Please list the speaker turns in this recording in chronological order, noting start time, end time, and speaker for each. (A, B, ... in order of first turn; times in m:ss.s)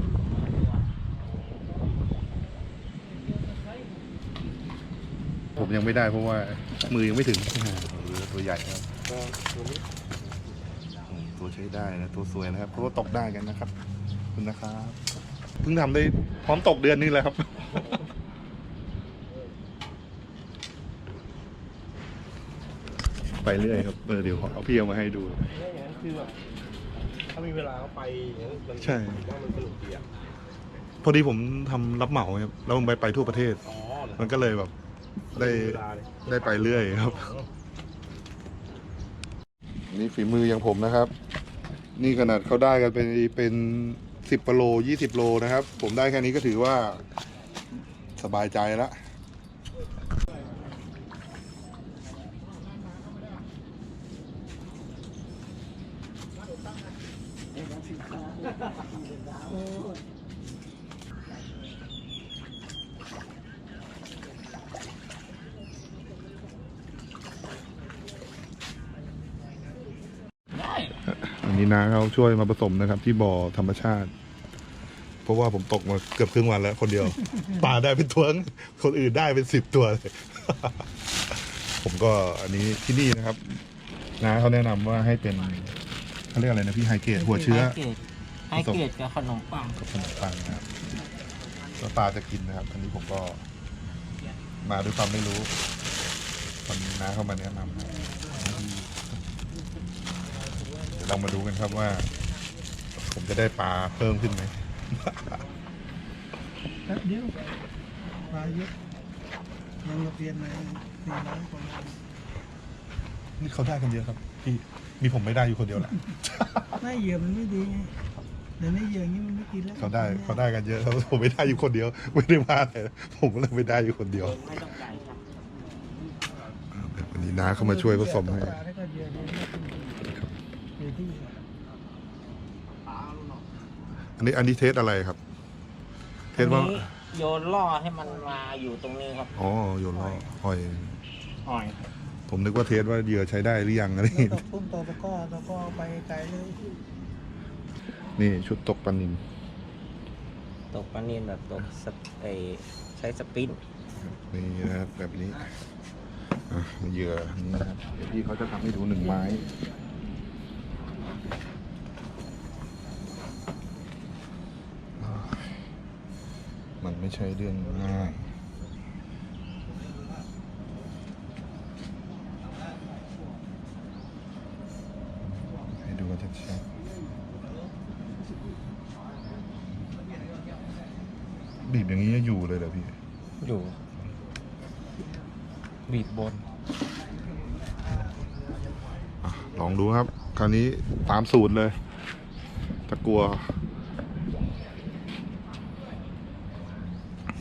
0:05.6-0:08.9 A
0:09.1-0:09.8 B
0:11.1-0:13.7 A
0:14.3-0:15.0 A
0:15.6-0:17.7 A
0:23.4-0:25.5 A
0:25.6-0:26.4 B
0:27.3-0:30.0 B
0:28.8-0:29.3 A
0:31.0-0:33.6 A
0:33.8-0:34.1 B
0:34.1-0:34.7 A
0:35.3-0:37.3 A
0:35.3-0:36.2 B
0:37.1-0:37.4 B
0:39.9-0:41.1 A
0:42.0-0:47.0 A
0:48.2-0:49.0 A
1:10.6-1:10.9 C
1:11.1-1:14.1 A
1:15.2-1:23.6 A
1:24.2-1:25.7 A
1:26.3-1:27.8 A
1:27.4-1:28.0 C
1:28.5-1:29.8 C
1:28.5-1:28.8 A
1:29.8-1:30.7 A
1:31.8-1:33.4 A
1:34.6-1:35.5 A
1:36.6-1:39.0 A
1:40.9-1:42.1 A
1:43.0-1:45.4 A
1:46.8-1:47.4 D
1:48.3-1:48.7 D
1:49.8-1:52.0 D
1:53.4-1:56.8 A
1:56.8-1:57.9 D
1:58.6-2:00.4 D
1:59.8-2:04.4 A
2:04.2-2:05.2 C
2:06.7-2:08.6 A
2:07.5-2:10.1 D
2:10.8-2:11.4 D
2:14.2-2:15.2 A
2:16.3-2:16.9 A
2:16.4-2:19.3 C
2:19.4-2:21.0 A
2:21.4-2:21.8 C
2:22.3-2:24.4 A
2:24.2-2:26.7 D
2:28.2-2:29.2 A
2:30.7-2:33.6 C
2:34.0-2:35.5 A
2:36.5-2:39.5 A
2:45.0-2:45.6 A
2:46.8-2:48.3 A
2:55.7-2:56.6 A
3:01.6-3:03.0 A
3:03.4-3:03.8 C
3:05.9-3:06.4 C
3:09.2-3:11.8 A
3:12.9-3:13.5 A